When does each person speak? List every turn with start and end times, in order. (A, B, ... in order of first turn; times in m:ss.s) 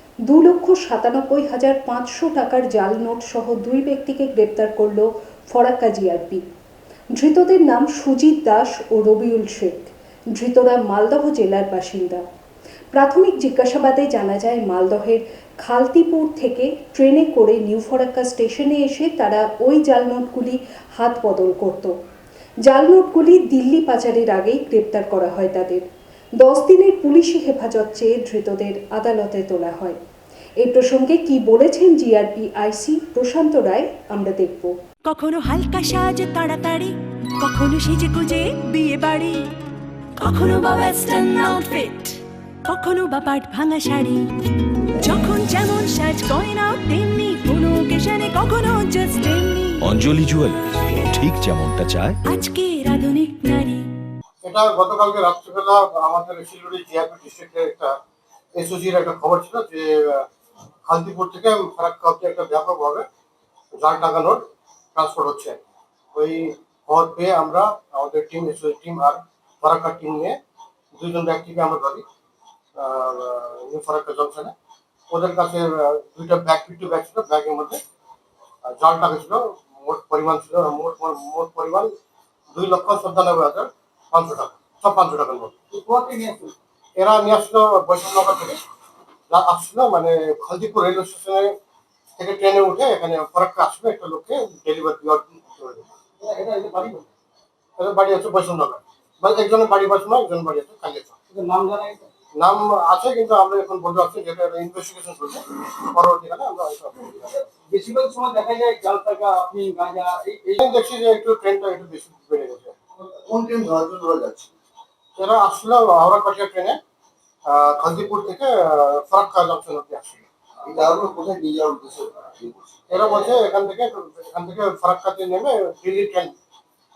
0:00.3-0:06.4 A
0:07.1-0:12.2 A
0:12.9-0:21.9 A
0:22.7-0:25.9 A
0:26.4-0:30.0 A
0:30.6-0:34.7 A
0:35.1-0:39.4 B
0:40.2-0:44.2 B
0:45.0-0:50.0 B
0:49.8-0:52.4 C
0:52.2-0:53.8 B
0:54.4-0:57.9 D
0:58.6-1:00.2 D
1:00.9-1:03.0 D
1:03.8-1:04.4 D
1:05.0-1:05.6 D
1:06.2-1:10.4 D
1:11.0-1:12.0 D
1:12.8-1:14.5 D
1:15.1-1:17.8 D
1:18.7-1:21.9 D
1:22.5-1:25.5 D
1:25.7-1:26.5 E
1:27.0-1:28.6 D
1:29.3-1:31.5 D
1:32.2-1:35.9 D
1:36.2-1:37.1 E
1:37.8-1:41.1 D
1:41.3-1:42.1 E
1:42.4-1:47.4 D
1:47.7-1:50.6 E
1:50.6-1:52.8 D
1:53.1-1:54.5 F
1:55.2-1:56.8 D
1:57.5-2:00.2 D
2:00.6-2:03.3 F
2:02.9-2:06.3 D